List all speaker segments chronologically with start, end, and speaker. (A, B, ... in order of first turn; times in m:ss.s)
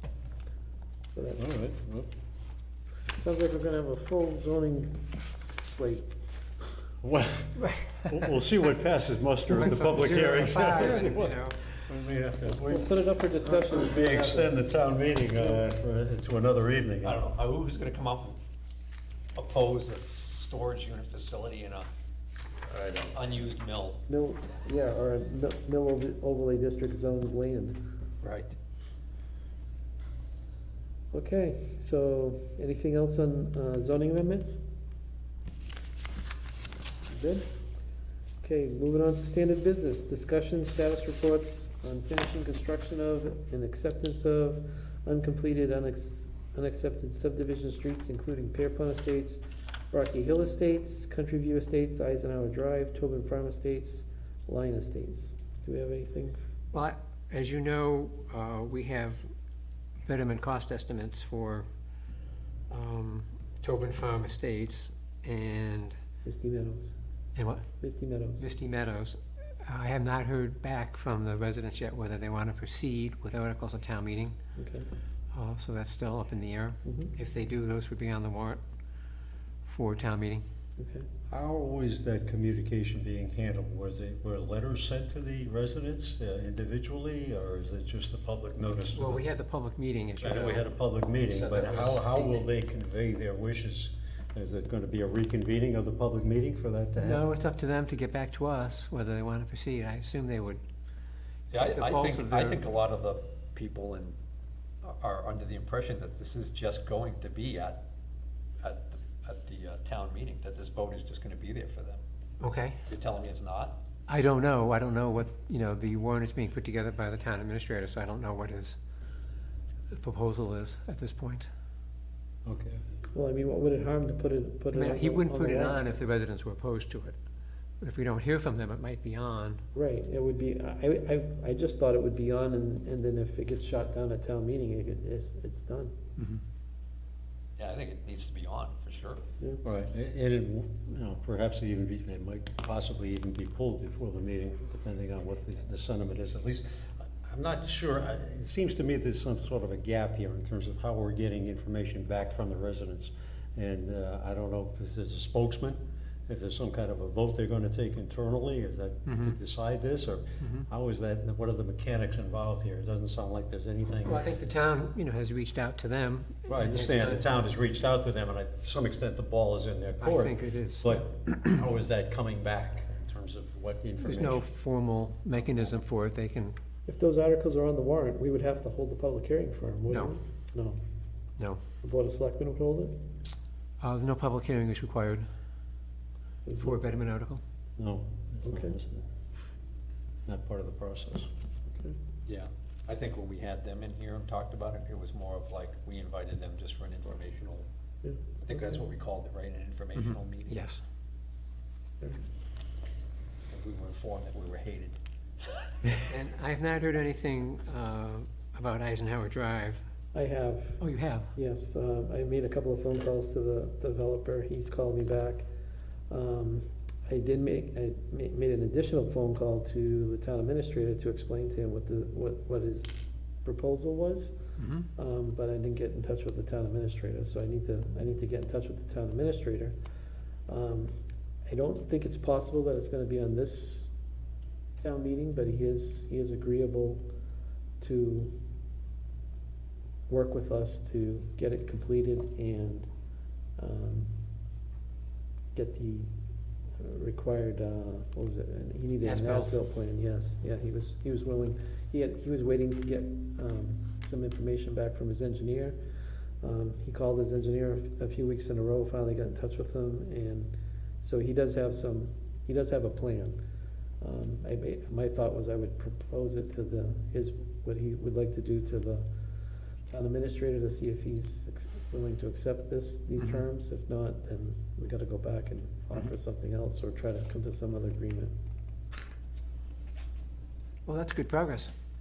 0:01.2-0:01.4 A
0:01.4-0:02.1 B
0:03.2-0:05.1 A
0:05.6-0:06.1 A
0:07.0-0:13.0 B
0:07.6-0:08.1 C
0:09.5-0:11.6 C
0:12.5-0:14.7 A
0:13.6-0:17.2 B
0:17.0-0:18.4 D
0:19.4-0:21.9 D
0:22.9-0:24.0 D
0:24.1-0:27.8 A
0:28.2-0:28.6 D
0:31.1-0:34.6 A
0:37.1-0:37.5 A
0:38.4-0:56.4 A
0:56.7-0:59.3 C
1:00.1-1:01.7 C
1:02.7-1:06.0 C
1:06.2-1:07.0 A
1:07.4-1:07.7 C
1:07.8-1:08.5 A
1:08.4-1:14.4 C
1:14.6-1:14.9 A
1:15.3-1:18.6 C
1:16.8-1:17.1 A
1:19.7-1:20.4 C
1:20.8-1:21.1 A
1:21.3-1:29.2 B
1:28.9-1:30.7 C
1:30.2-1:37.2 B
1:31.4-1:32.4 C
1:37.0-1:40.6 C
1:41.5-1:42.6 C
1:41.5-1:44.2 D
1:44.8-1:47.8 D
1:48.6-1:52.0 D
1:52.4-1:52.8 C
1:52.9-1:53.8 D
1:54.1-1:58.8 C
1:59.9-2:01.5 C
2:02.4-2:02.8 B
2:03.1-2:05.8 A
2:04.7-2:07.2 C
2:07.8-2:09.6 C
2:09.7-2:16.0 A
2:17.6-2:19.2 D
2:19.6-2:44.2 B
2:39.1-2:39.4 C
2:44.0-2:47.3 C
2:46.5-2:54.4 B
2:50.0-2:51.7 C
2:54.0-2:56.6 C
2:56.9-3:00.8 A
2:59.9-3:00.2 C
3:01.8-3:03.0 A
3:03.8-3:05.3 C
3:06.5-3:06.8 A
3:06.6-3:07.4 C
3:07.8-3:09.0 B
3:08.4-3:08.8 A
3:10.3-3:11.3 B
3:12.3-3:17.7 D
3:18.0-3:18.8 A
3:18.4-3:20.7 D
3:20.0-3:20.8 C
3:23.5-3:25.0 D
3:26.0-3:29.8 C
3:30.1-3:30.8 A
3:30.8-3:31.3 C
3:31.4-3:35.5 A
3:36.1-3:44.4 A
3:44.6-3:44.9 C
3:45.0-3:49.8 A
3:50.5-3:50.9 A
3:51.5-3:53.9 A
3:54.8-3:57.0 A
3:57.8-3:58.3 A
4:00.1-4:02.9 A
4:03.6-4:04.1 A
4:05.6-4:06.1 A
4:06.8-4:15.8 A
4:09.0-4:09.6 C
4:16.4-4:23.4 A
4:24.0-4:29.1 A
4:29.9-4:38.3 A
4:33.2-4:33.4 C
4:40.9-4:41.7 C